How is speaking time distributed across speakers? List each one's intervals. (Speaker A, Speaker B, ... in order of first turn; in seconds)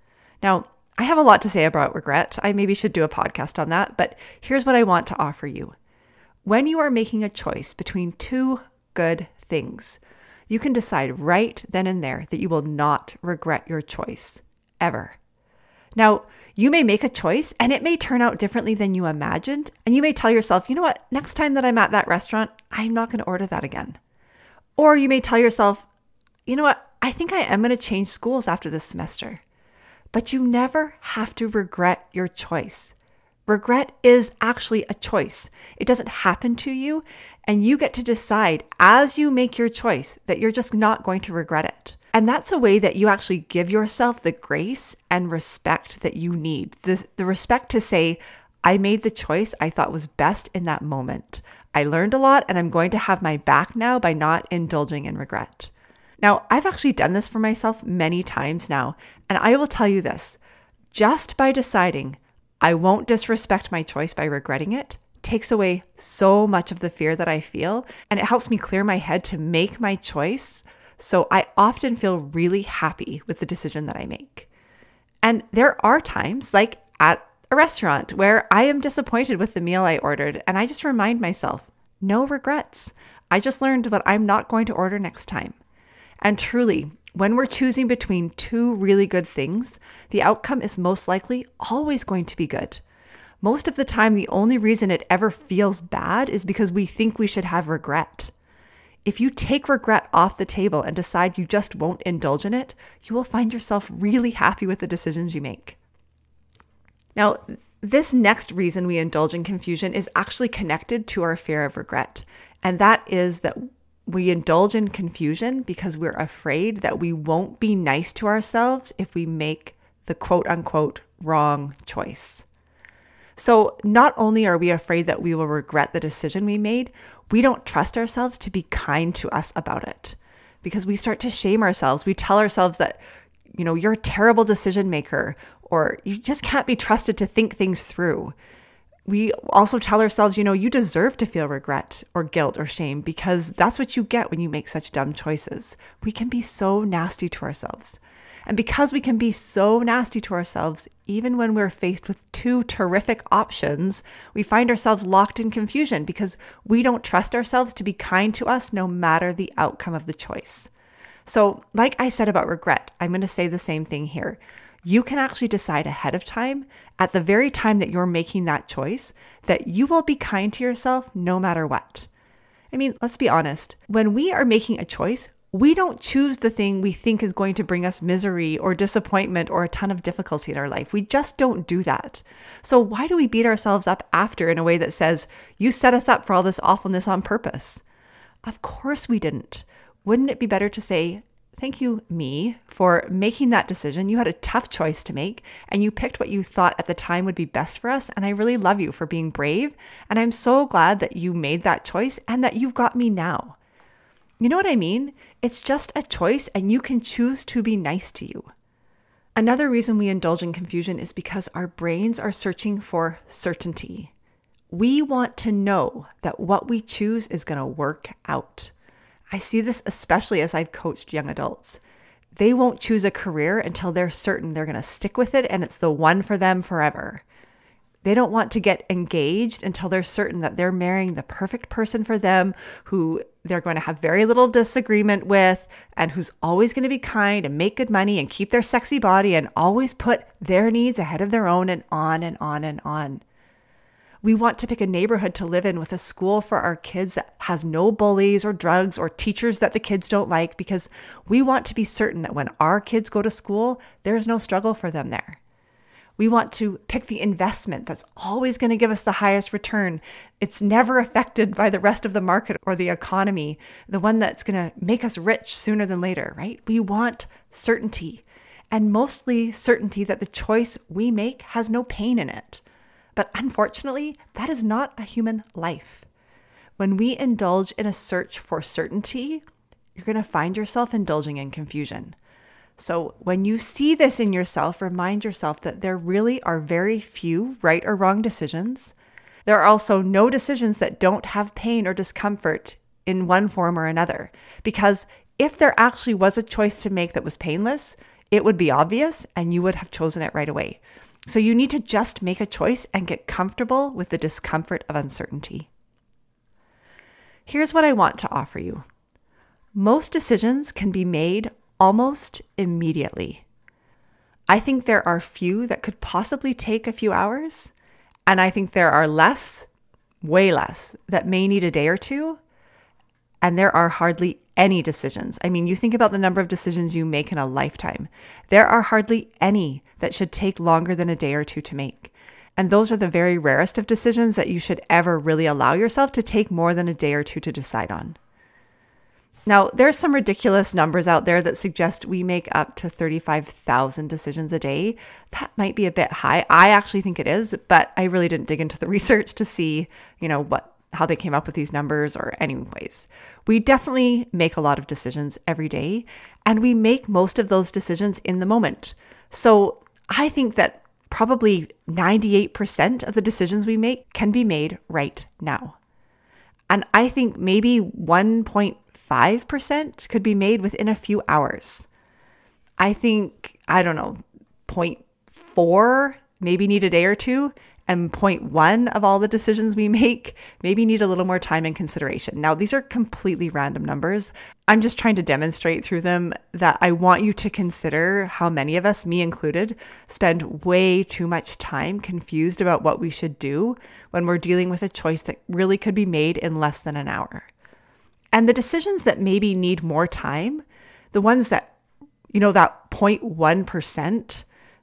Speaker A: 0.4-5.8, 6.4-15.2, 15.9-24.0, 24.8-25.9, 26.5-29.4, 30.1-32.9, 33.5-60.4, 60.9-74.5, 75.2-85.6, 86.2-92.8, 93.4-98.3, 99.0-105.8, 107.2-122.4, 123.4-133.0, 133.5-138.3, 139.1-160.7, 161.2-172.1, 172.7-187.8, 188.4-203.6, 204.4-208.5, 209.3-214.1, 214.7-218.7, 219.3-221.8, 222.3-227.2, 228.0-243.2, 244.2-255.4, 256.2-272.6, 273.1-276.1, 276.8-279.4, 279.9-282.1, 282.8-288.9, 289.4-305.7, 307.4-308.8, 309.7-313.4, 314.5-317.7, 318.3-319.7, 320.2-322.4, 323.4-338.2, 339.5-365.8, 366.7-371.9, 372.8-397.5, 398.3-401.7, 402.3-404.4